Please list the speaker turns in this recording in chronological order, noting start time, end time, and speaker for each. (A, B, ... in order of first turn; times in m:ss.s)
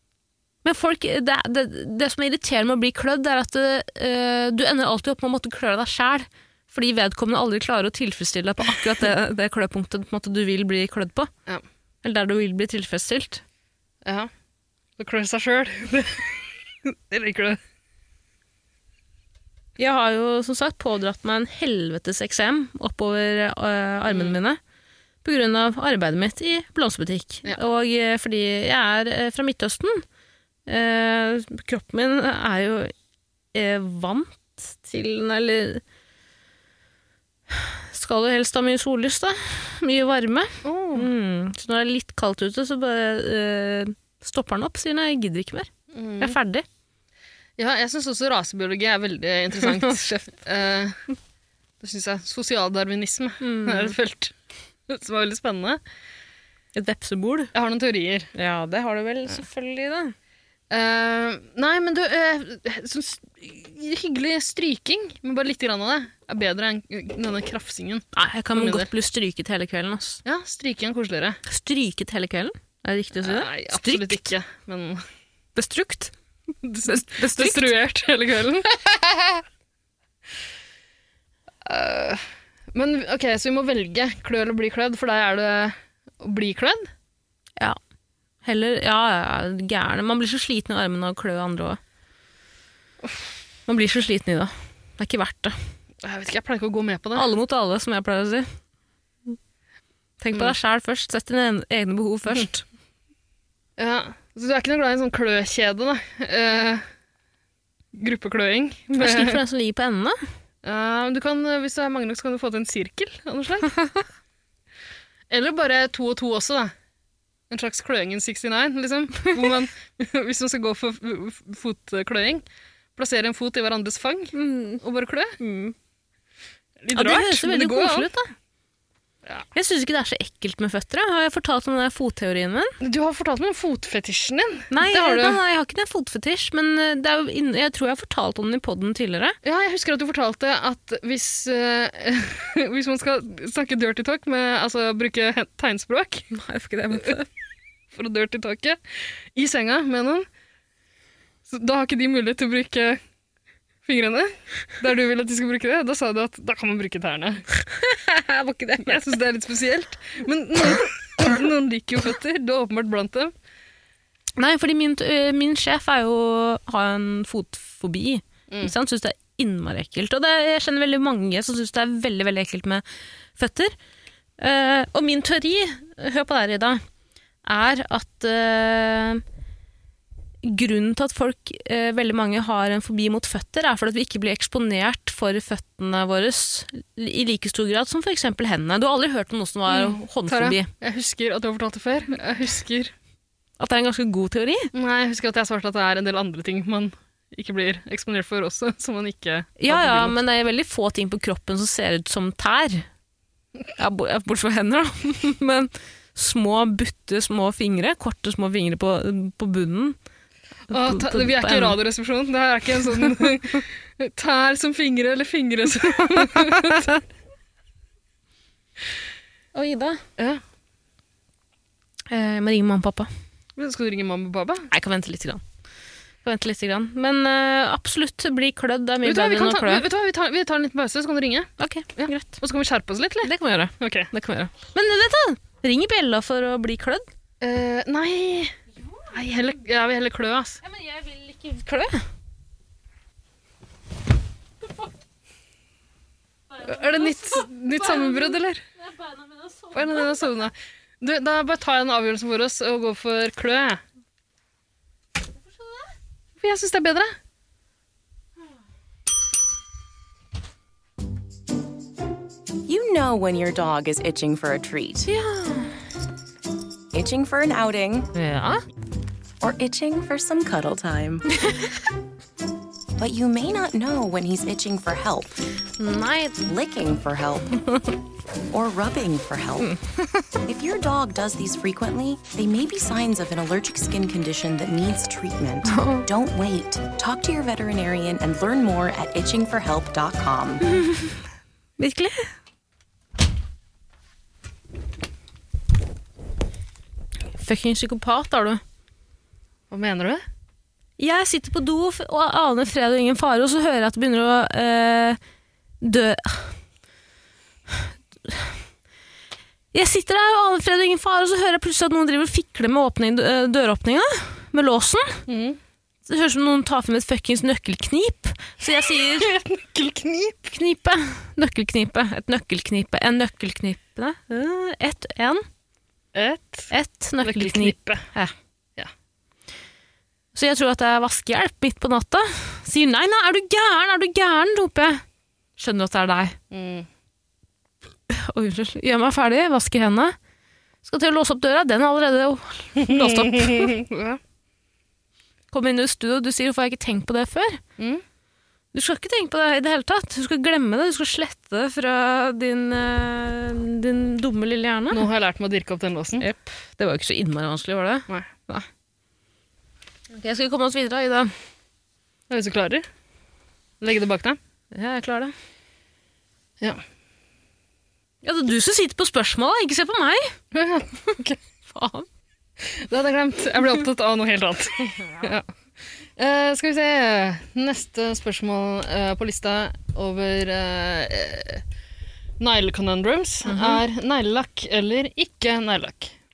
0:00.6-0:11.3 A
0:12.0-0:13.4 A
0:14.0-0:14.3 B
0:15.0-0:17.6 B
0:19.8-0:24.6 A
0:24.1-0:24.4 B
0:25.2-0:30.0 A
0:30.7-0:32.9 A
0:33.5-0:35.8 A
0:37.5-0:46.6 A
0:40.6-0:41.1 B
0:45.9-0:46.4 B
0:47.6-0:51.0 B
0:49.6-0:50.3 A
0:51.8-0:54.4 B
0:53.4-0:54.0 A
0:54.9-0:55.8 B
0:56.8-0:57.5 A
0:57.5-0:58.3 B
0:58.3-1:00.1 A
1:00.7-1:08.9 B
1:08.1-1:10.2 A
1:10.2-1:11.4 B
1:11.5-1:14.3 A
1:13.2-1:15.0 B
1:15.6-1:16.1 A
1:16.6-1:18.8 B
1:16.8-1:17.7 A
1:21.6-1:26.9 B
1:28.4-1:31.8 A
1:33.7-1:35.6 A
1:36.0-1:37.3 B
1:37.2-1:38.5 A
1:40.2-1:42.6 A
1:43.8-1:46.8 B
1:47.9-1:49.4 B
1:49.0-1:50.2 A
1:50.6-1:53.7 B
1:55.3-1:56.7 B
1:57.5-2:02.4 B
2:03.0-2:05.4 B
2:04.3-2:04.8 A
2:05.4-2:05.8 A
2:06.8-2:08.1 B
2:06.9-2:08.3 A
2:09.6-2:12.8 A
2:12.8-2:15.4 B
2:14.7-2:19.4 A
2:19.4-2:26.3 B
2:26.3-2:27.3 A
2:27.9-2:30.3 B
2:31.5-2:33.0 B
2:33.8-2:37.4 B
2:37.6-2:39.0 A
2:38.8-2:43.3 B
2:44.4-2:52.8 A
2:53.4-2:53.7 A
2:54.4-2:56.8 A
2:57.4-2:59.2 A
3:00.4-3:10.7 A
3:09.7-3:12.9 B
3:13.6-3:14.7 A
3:14.7-3:20.2 B
3:19.6-3:22.9 A
3:23.8-3:30.0 A
3:30.7-3:31.8 A
3:30.7-3:37.0 B
3:39.5-3:40.0 A
3:40.2-3:40.4 B
3:42.1-3:43.1 A
3:43.6-3:44.7 B
3:44.7-3:45.4 A
3:46.2-3:49.8 A
3:49.0-3:54.1 B
3:51.6-3:52.4 A
3:53.2-3:57.1 A
3:57.4-3:58.6 B
3:59.1-4:00.6 B
4:00.6-4:02.1 A
4:06.5-4:10.2 A
4:06.6-4:08.6 B
4:09.7-4:13.8 B
4:16.4-4:17.2 B
4:22.6-4:25.1 C
4:25.0-4:25.8 A
4:26.9-4:28.1 C
4:28.1-4:28.6 A
4:29.4-4:31.3 C
4:31.4-4:31.7 A
4:33.0-4:35.3 C
4:35.8-4:36.4 A
4:36.4-4:37.6 C
4:38.5-4:39.7 C
4:39.6-4:40.2 A
4:40.5-4:50.7 C
4:45.7-4:46.1 A
4:50.7-4:51.1 A
4:51.8-4:52.3 A
4:57.3-4:58.6 A
4:59.7-5:00.2 B
5:01.0-5:05.2 A
5:05.8-5:06.6 A
5:07.7-5:08.5 A
5:09.7-5:15.2 A
5:15.3-5:15.6 B
5:16.1-5:19.3 A
5:18.7-5:20.5 B
5:20.5-5:25.4 A
5:26.1-5:26.7 B
5:26.7-5:28.3 A
5:27.2-5:28.1 B
5:30.3-5:35.0 A
5:35.6-5:36.4 A
5:36.5-5:36.9 B
5:38.1-5:40.2 A
5:40.8-5:43.8 A
5:42.8-5:44.2 B
5:45.5-5:47.6 A
5:47.8-5:48.0 B
5:48.7-5:55.1 A
5:54.9-5:56.2 B
5:56.2-5:58.7 A
6:00.1-6:01.3 A
6:02.3-6:02.9 B
6:03.8-6:04.4 B
6:04.7-6:05.3 A
6:08.2-6:10.4 A
6:10.5-6:11.4 B
6:11.7-6:12.1 A
6:12.6-6:15.5 B
6:16.0-6:21.6 B
6:22.4-6:26.1 B
6:23.5-6:23.8 A